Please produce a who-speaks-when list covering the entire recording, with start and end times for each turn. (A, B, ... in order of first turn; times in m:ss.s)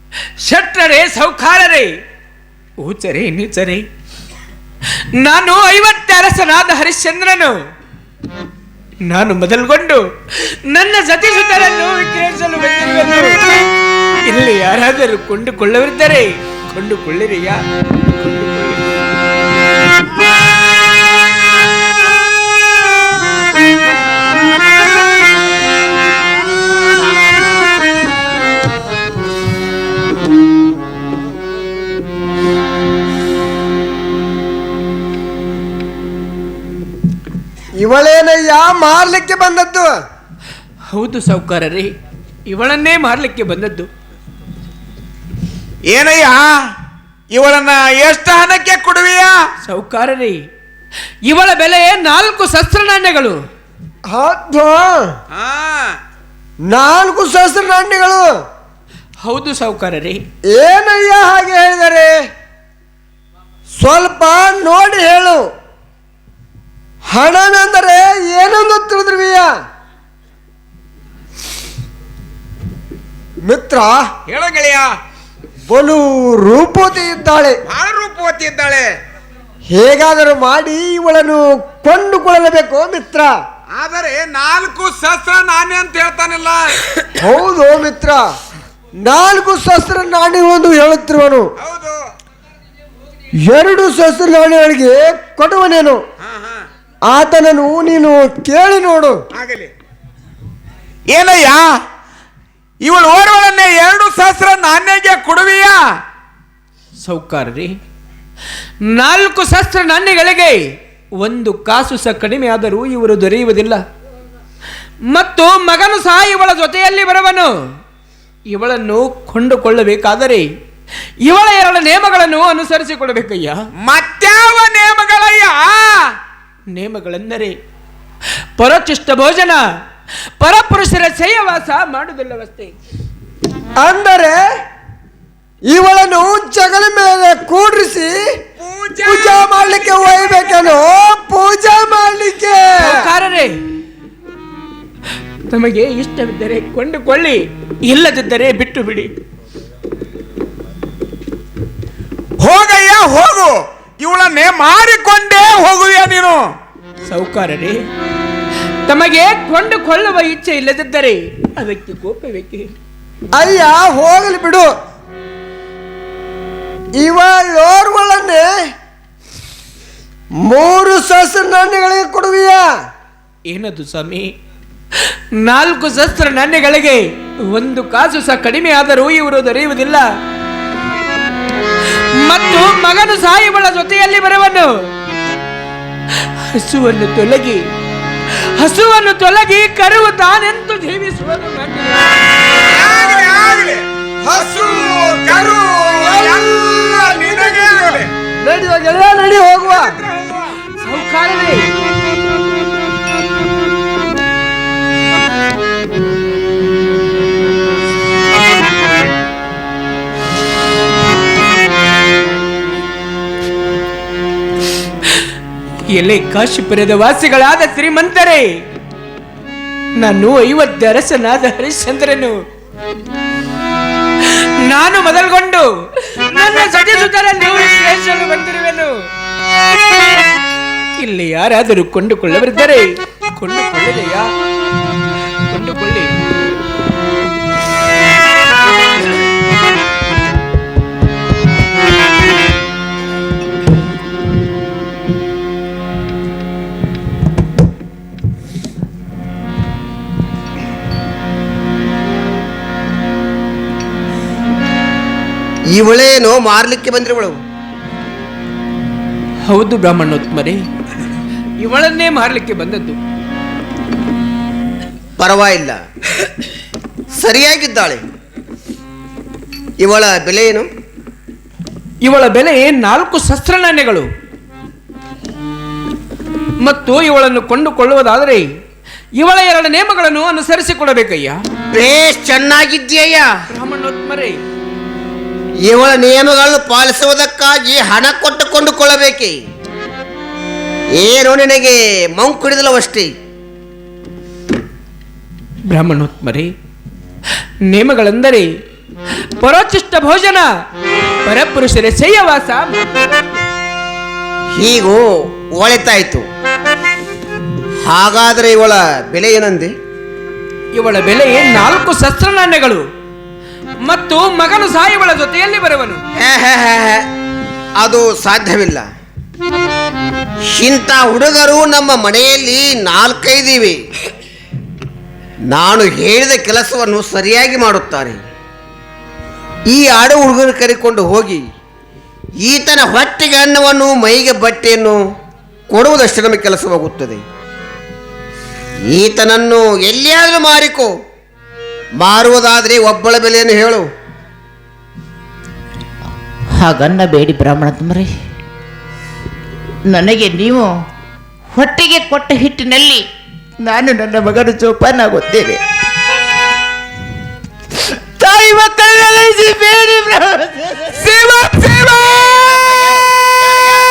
0:00.4-0:01.9 A
0:02.8-0:03.8 A
0:05.2-0:07.6 A
0:09.1-0:10.0 A
0:10.7-0:13.4 A
0:14.2-0:18.9 A
0:37.8-0:39.9 B
0:40.9-0:41.9 A
0:42.5-0:43.9 A
0:45.9-0:46.6 C
0:47.3-0:49.4 C
0:49.6-0:50.4 A
0:51.2-0:53.4 A
0:54.1-0:55.0 B
0:55.3-0:56.0 C
0:56.7-0:58.3 B
0:59.2-1:00.2 A
1:00.5-1:02.2 B
1:03.8-1:05.5 B
1:07.1-1:09.5 B
1:13.4-1:14.1 B
1:14.2-1:14.9 C
1:15.7-1:17.6 B
1:17.6-1:18.9 C
1:19.7-1:23.3 B
1:23.7-1:27.1 C
1:27.2-1:28.2 B
1:29.0-1:31.5 B
1:31.6-1:32.0 C
1:33.4-1:36.0 B
1:36.2-1:36.6 C
1:37.1-1:39.2 B
1:39.3-1:39.7 C
1:41.1-1:41.8 C
1:42.8-1:45.8 C
1:47.0-1:47.7 A
1:48.8-1:50.6 A
1:51.2-1:53.8 A
1:55.1-1:57.6 A
1:58.5-2:00.5 A
2:01.2-2:03.6 A
2:03.8-2:06.1 C
2:06.7-2:07.6 A
2:08.6-2:09.6 A
2:10.4-2:12.7 A
2:13.8-2:14.4 B
2:15.7-2:18.3 B
2:18.6-2:20.7 C
2:19.0-2:23.0 B
2:22.8-2:23.5 A
2:25.5-2:29.1 A
2:32.4-2:36.5 C
2:37.1-2:37.8 A
2:38.8-2:42.7 A
2:43.4-2:44.7 B
2:47.0-2:48.5 B
2:50.4-2:52.7 B
2:53.5-2:54.3 A
2:55.4-3:00.0 A
3:02.2-3:04.7 A
3:06.2-3:07.6 A
3:08.6-3:12.2 A
3:12.5-3:18.1 C
3:14.3-3:16.5 B
3:18.4-3:19.9 B
3:19.6-3:20.6 C
3:20.8-3:21.7 A
3:35.9-3:38.5 A
3:40.0-3:42.4 A
3:44.2-3:49.0 A
3:51.0-3:54.3 A
3:55.5-3:56.1 A
4:15.7-4:17.4 D
4:19.4-4:20.6 A
4:21.6-4:23.0 A
4:25.2-4:25.8 D
4:27.2-4:28.0 D
4:29.8-4:30.7 D
4:32.0-4:34.1 A
4:36.6-4:38.4 A
4:39.2-4:41.4 A
4:41.7-4:43.3 D
4:43.5-4:44.4 A
4:45.7-4:49.4 D
4:51.0-4:53.1 D
4:55.7-4:56.5 A
4:57.7-4:58.5 A
4:59.4-5:00.5 A
5:01.2-5:02.8 A
5:04.6-5:06.2 D
5:07.8-5:09.7 D
5:10.7-5:12.8 A
5:13.8-5:16.0 A
5:16.2-5:17.0 D
5:17.8-5:18.8 D
5:20.5-5:23.8 D
5:25.5-5:28.2 D
5:29.7-5:31.4 D
5:32.4-5:35.0 D
5:35.7-5:37.2 D
5:38.9-5:40.9 D
5:42.0-5:43.9 D
5:46.6-5:48.1 E
5:49.9-5:50.7 E
5:51.5-5:53.0 E
5:53.6-5:55.6 E
5:58.2-6:00.9 E
6:00.9-6:03.7 C